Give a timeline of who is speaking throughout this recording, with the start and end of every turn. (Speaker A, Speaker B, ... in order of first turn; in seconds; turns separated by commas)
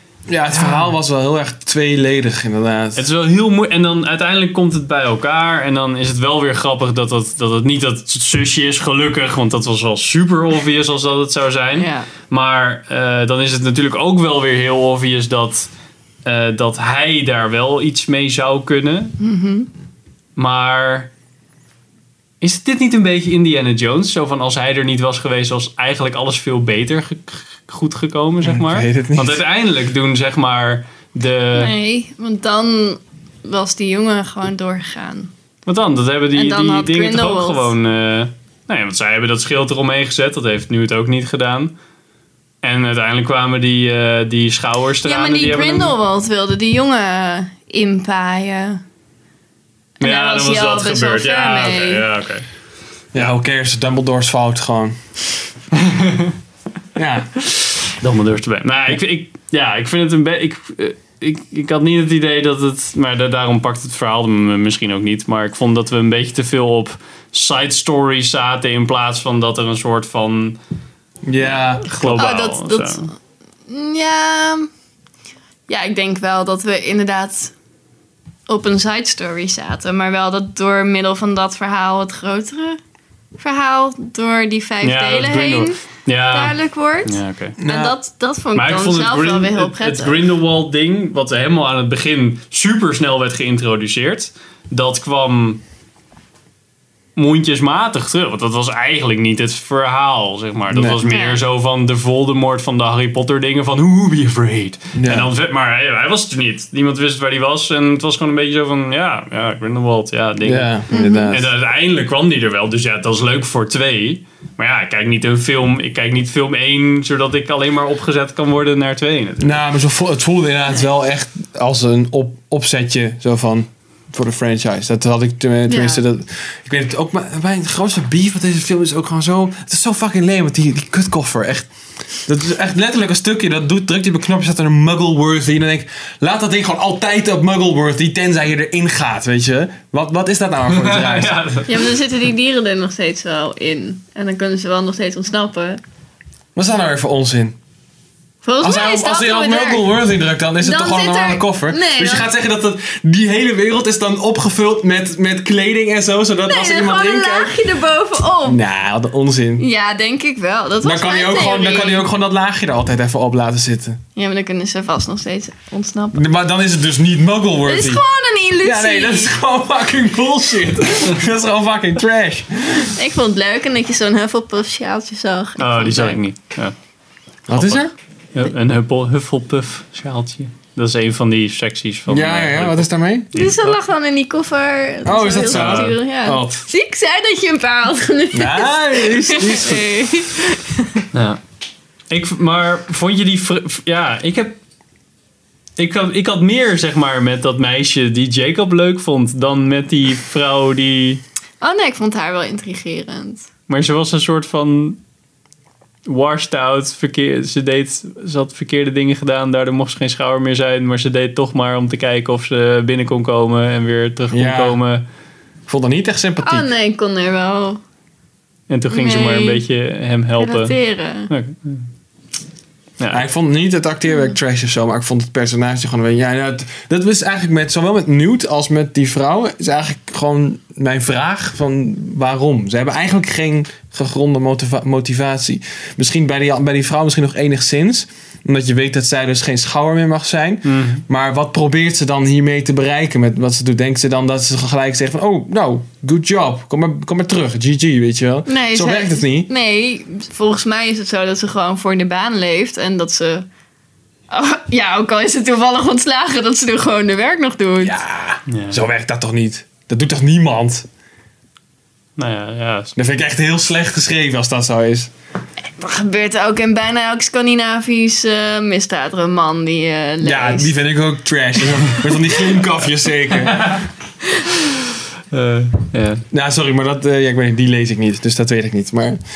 Speaker A: 0.3-3.0, Speaker B: 0.5-0.9, Speaker B: 3.0-15.7, Speaker C: 11.8-12.1, Speaker B: 16.2-19.1, Speaker C: 19.2-19.7, Speaker B: 20.4-21.1, Speaker B: 22.4-31.7, Speaker A: 28.4-29.4, Speaker C: 31.6-35.3, Speaker B: 35.7-41.7, Speaker C: 36.3-37.7, Speaker B: 42.6-46.0, Speaker C: 45.0-48.8, Speaker C: 50.0-52.0, Speaker B: 50.0-52.5, Speaker A: 53.1-55.0, Speaker B: 55.8-56.3, Speaker A: 57.0-57.3, Speaker B: 57.9-70.6, Speaker A: 71.3-71.9, Speaker B: 71.4-73.1, Speaker C: 72.0-73.1, Speaker C: 73.7-74.7, Speaker C: 75.7-77.5, Speaker C: 78.5-82.8, Speaker C: 83.4-90.3, Speaker B: 84.8-87.6, Speaker A: 87.6-88.0, Speaker B: 88.5-95.6, Speaker B: 97.2-119.6, Speaker A: 100.7-101.0, Speaker C: 101.0-101.4, Speaker A: 105.0-105.3, Speaker A: 110.5-111.5, Speaker C: 110.9-111.3, Speaker A: 119.4-131.7, Speaker C: 125.7-126.0, Speaker A: 132.2-141.4, Speaker B: 140.7-141.9, Speaker C: 141.7-145.8, Speaker A: 146.6-147.6, Speaker C: 148.4-149.9, Speaker A: 148.6-157.5, Speaker C: 150.6-152.3, Speaker C: 156.5-158.6, Speaker A: 158.4-159.7, Speaker C: 159.6-162.1, Speaker A: 160.8-164.0, Speaker C: 164.2-166.3, Speaker A: 166.1-168.0, Speaker C: 167.7-169.3, Speaker A: 168.6-172.9, Speaker C: 172.8-176.2, Speaker B: 175.6-176.7, Speaker A: 177.5-177.9, Speaker B: 177.5-183.8, Speaker A: 182.1-183.3, Speaker C: 183.3-191.0, Speaker A: 185.1-186.6, Speaker B: 185.5-185.9, Speaker A: 188.3-190.2, Speaker B: 191.1-191.4, Speaker B: 192.1-194.6, Speaker B: 195.8-201.2, Speaker C: 201.6-203.5, Speaker B: 203.7-205.0, Speaker B: 206.1-215.0, Speaker A: 214.3-214.8, Speaker A: 215.7-216.7, Speaker C: 216.4-217.8, Speaker B: 218.7-220.8, Speaker C: 218.9-219.6, Speaker C: 220.4-221.3, Speaker B: 221.3-221.9, Speaker B: 223.0-223.2, Speaker A: 223.1-249.5, Speaker B: 240.7-241.0, Speaker C: 248.5-253.5, Speaker C: 254.3-258.0, Speaker A: 257.8-260.9, Speaker B: 258.5-258.9, Speaker B: 262.2-262.9, Speaker A: 263.0-265.1, Speaker C: 265.8-270.7, Speaker A: 270.2-273.8, Speaker B: 273.4-273.9, Speaker B: 275.3-276.2, Speaker A: 276.3-279.2